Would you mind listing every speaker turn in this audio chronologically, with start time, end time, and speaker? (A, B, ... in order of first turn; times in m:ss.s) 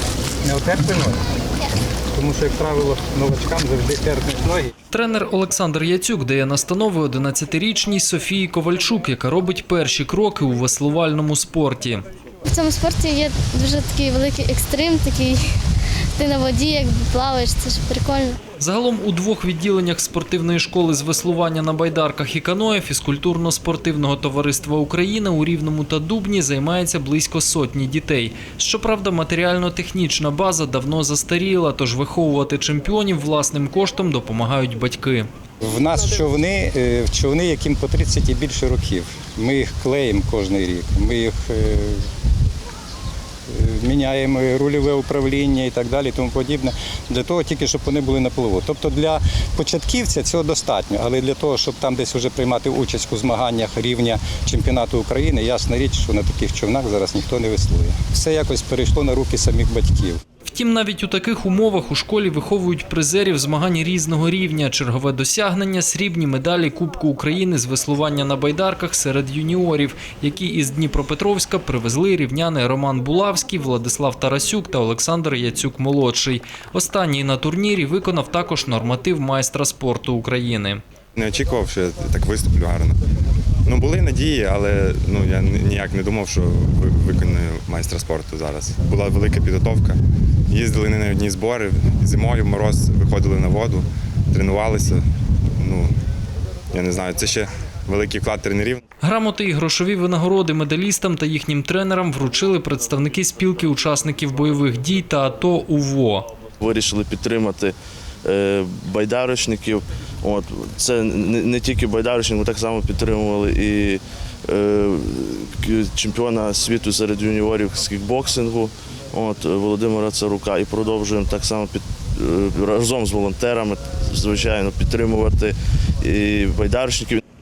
0:00.4-0:01.2 A
0:02.1-0:04.7 A
0:04.9-0:12.0 B
0:12.5-0:15.4 C
0:16.2-0:18.4 C
0:18.6-0:35.3 B
0:35.6-0:42.0 A
0:43.5-1:00.2 A
1:00.4-1:20.8 B
1:21.1-1:23.0 D
1:23.6-1:30.0 D
1:30.5-1:35.0 D
1:35.6-1:35.9 D
1:36.7-1:38.8 D
1:39.0-1:46.3 B
1:46.6-2:07.2 E